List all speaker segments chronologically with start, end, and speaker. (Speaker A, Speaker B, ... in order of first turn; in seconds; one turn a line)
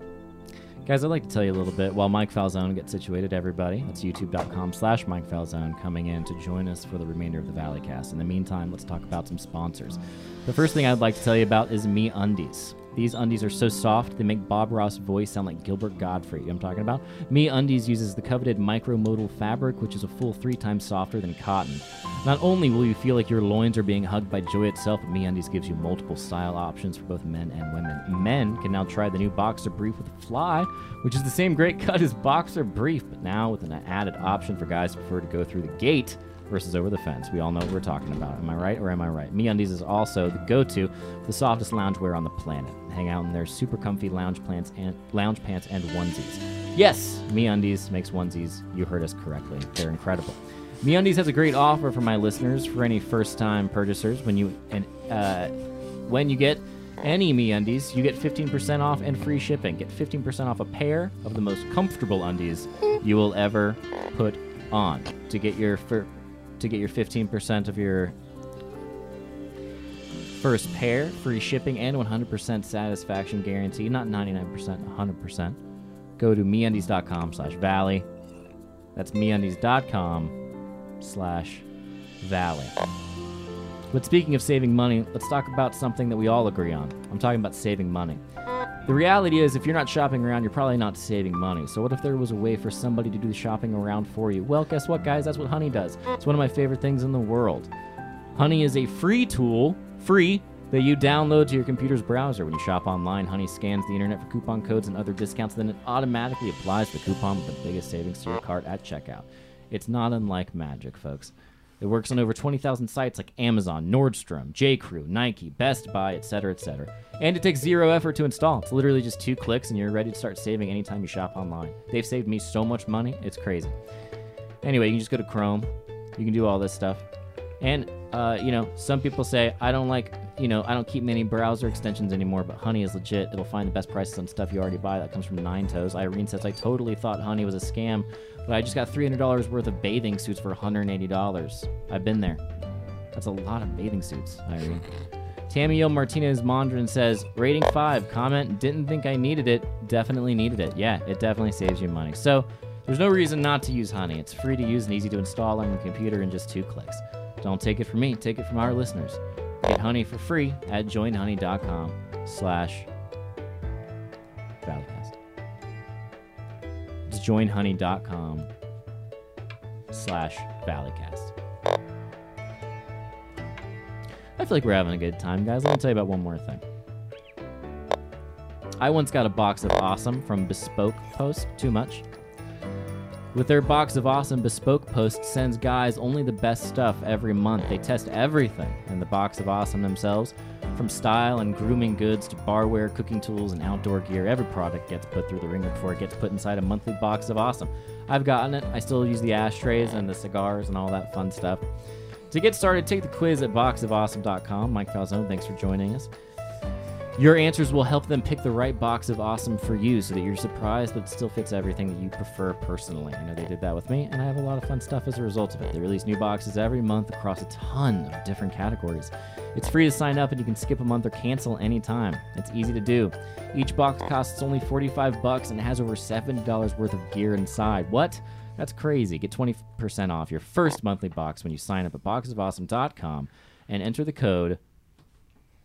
Speaker A: 0.8-55.5
Speaker A: 56.1-66.1
Speaker A: 66.6-68.1
Speaker A: 70.4-75.6
Speaker A: 76.2-78.1
Speaker A: 79.0-80.3
Speaker A: 81.0-81.6
Speaker A: 82.2-82.7
Speaker A: 83.9-88.2
Speaker A: 88.9-97.7
Speaker A: 98.3-123.7
Speaker A: 124.6-127.0
Speaker A: 127.6-142.4
Speaker A: 143.1-144.8
Speaker A: 145.5-162.9
Speaker A: 164.6-165.2
Speaker A: 167.1-168.5
Speaker A: 169.9-171.3
Speaker A: 174.4-176.6
Speaker A: 178.8-182.0
Speaker A: 183.3-201.6
Speaker A: 202.3-206.1
Speaker A: 207.2-234.6